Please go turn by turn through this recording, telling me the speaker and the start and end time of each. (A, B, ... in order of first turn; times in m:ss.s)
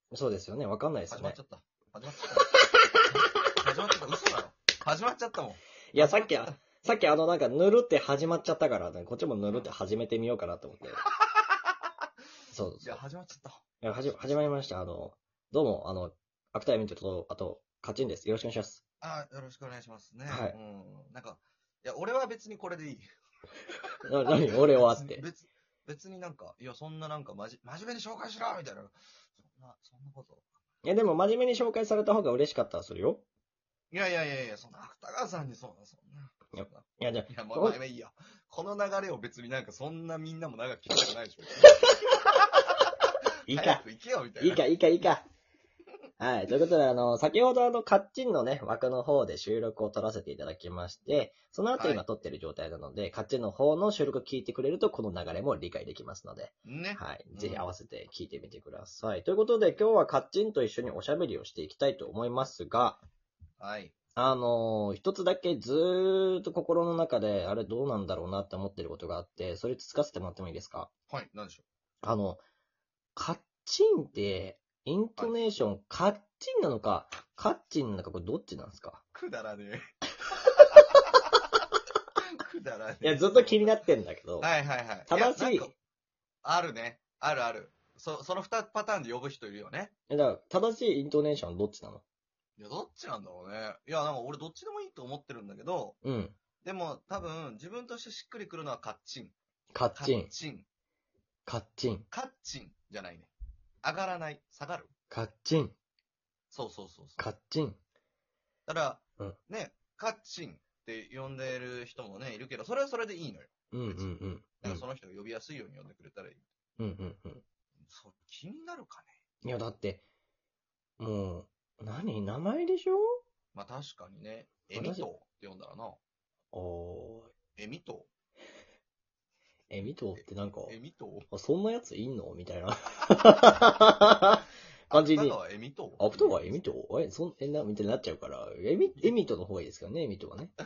0:00.1-0:01.4 A
0:01.1-0:02.5 B
0:03.5-0:06.6 B
0:05.9-0:11.0 A
0:11.2-0:11.7 B
0:12.5-0:13.0 A
0:12.8-0:14.4 B
0:13.8-0:18.8 A
0:19.0-0:23.0 B
0:20.3-0:20.6 A
0:23.7-0:30.5 B
0:24.0-0:25.2 A
0:30.8-0:33.2 A
0:33.9-0:41.8 B
0:36.5-0:37.8 A
0:42.5-0:42.9 B
0:43.5-0:43.8 A
0:43.5-0:44.6 B
0:44.4-0:45.2 A
0:46.2-1:03.0 A
0:51.8-0:52.0 B
0:56.6-0:57.7 B
1:03.6-1:03.9 B
1:04.2-1:10.9 A
1:11.1-1:11.6 B
1:12.0-1:12.4 A
1:13.2-1:19.0 A
1:19.1-1:19.8 B
1:20.3-1:21.4 B
1:22.3-1:23.8 B
1:23.0-1:24.5 A
1:24.4-1:25.7 B
1:25.1-1:25.7 A
1:26.4-1:29.9 B
1:30.1-1:32.0 A
1:32.6-1:36.0 B
1:36.0-1:36.3 A
1:36.6-1:39.3 B
1:39.7-1:40.3 A
1:39.9-1:40.7 B
1:41.4-1:42.1 A
1:42.1-1:43.3 B
1:43.8-1:44.9 B
1:45.1-1:45.7 A
1:46.5-1:47.2 B
1:47.2-1:47.8 A
1:48.7-1:56.4 B
1:53.7-1:54.8 A
1:56.8-1:57.4 A
1:57.8-1:59.2 B
1:59.4-2:00.0 A
2:01.0-2:03.2 A
2:03.5-2:06.0 B
2:04.7-2:05.1 A
2:06.5-2:07.3 A
2:07.6-2:08.1 B
2:09.7-2:10.8 A
2:10.2-2:11.3 B
2:11.3-2:15.4 A
2:14.9-2:16.7 B
2:16.0-2:20.5 A